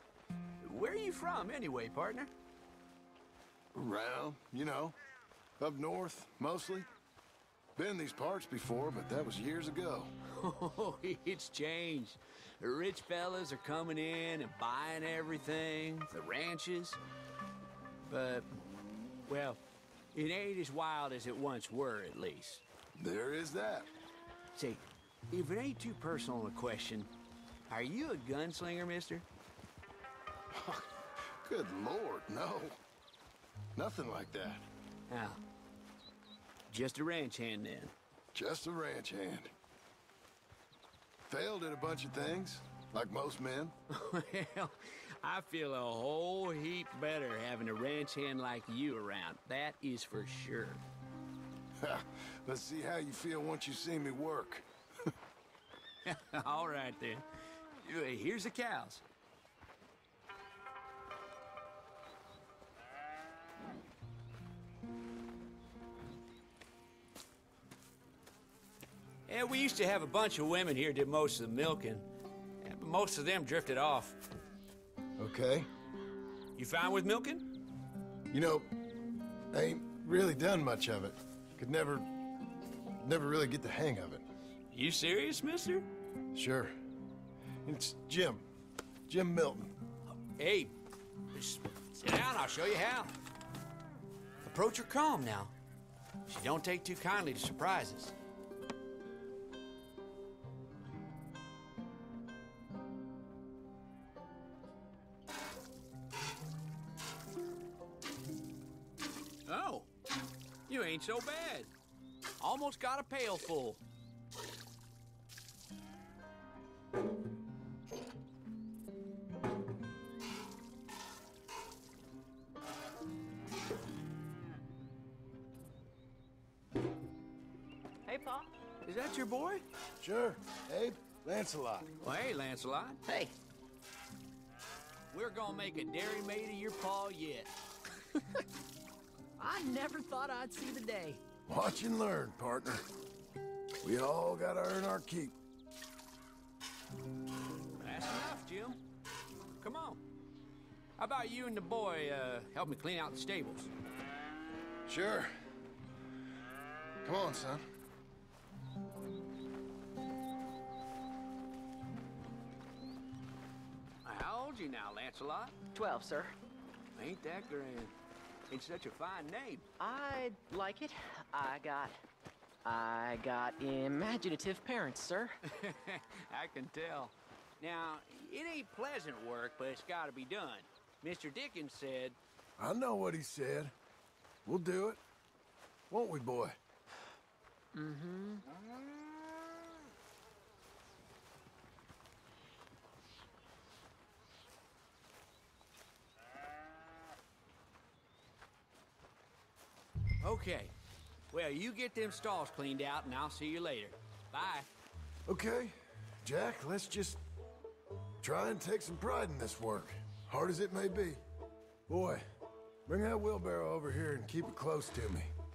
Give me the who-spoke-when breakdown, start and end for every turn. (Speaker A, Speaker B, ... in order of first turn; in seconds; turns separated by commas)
Speaker A: 0.6-2.3, Speaker B: 3.7-5.0, Speaker B: 5.6-6.9, Speaker B: 7.8-10.1, Speaker A: 10.4-17.0, Speaker A: 18.1-19.6, Speaker A: 20.1-22.6, Speaker B: 23.0-23.9, Speaker A: 24.6-27.1, Speaker A: 27.7-29.2, Speaker B: 31.4-32.8, Speaker B: 33.8-34.7, Speaker A: 35.1-35.4, Speaker A: 36.7-37.9, Speaker B: 38.3-39.5, Speaker B: 41.3-43.7, Speaker A: 44.0-50.8, Speaker B: 51.8-54.6, Speaker A: 56.1-57.2, Speaker A: 57.8-59.0, Speaker A: 69.3-72.1, Speaker A: 72.6-74.2, Speaker B: 75.2-75.7, Speaker A: 76.6-77.5, Speaker B: 78.3-78.7, Speaker B: 79.5-82.1, Speaker B: 83.0-84.2, Speaker A: 84.7-85.9, Speaker B: 86.3-86.7, Speaker B: 87.7-88.4, Speaker B: 89.1-89.7, Speaker A: 90.4-90.7, Speaker A: 91.3-93.1, Speaker A: 94.5-95.5, Speaker A: 96.3-98.1, Speaker A: 109.5-109.9, Speaker A: 110.7-111.7, Speaker A: 112.4-113.8, Speaker C: 128.1-128.5, Speaker A: 128.9-129.6, Speaker B: 130.0-131.9, Speaker A: 132.0-133.0, Speaker A: 135.1-137.5, Speaker C: 139.4-141.2, Speaker B: 141.5-142.8, Speaker B: 143.8-145.3, Speaker A: 147.8-148.8, Speaker A: 149.6-150.0, Speaker A: 151.0-153.7, Speaker B: 154.9-155.3, Speaker B: 157.0-157.6, Speaker A: 164.1-165.6, Speaker C: 165.7-166.4, Speaker A: 167.0-167.9, Speaker A: 168.5-169.7, Speaker C: 169.8-172.0, Speaker C: 172.7-175.3, Speaker A: 175.6-182.2, Speaker B: 182.6-183.7, Speaker B: 184.5-185.0, Speaker B: 185.9-186.6, Speaker C: 187.8-188.4, Speaker A: 200.2-200.7, Speaker A: 201.3-204.7, Speaker B: 205.3-207.2, Speaker B: 208.2-211.2, Speaker B: 211.9-212.2, Speaker B: 212.9-215.3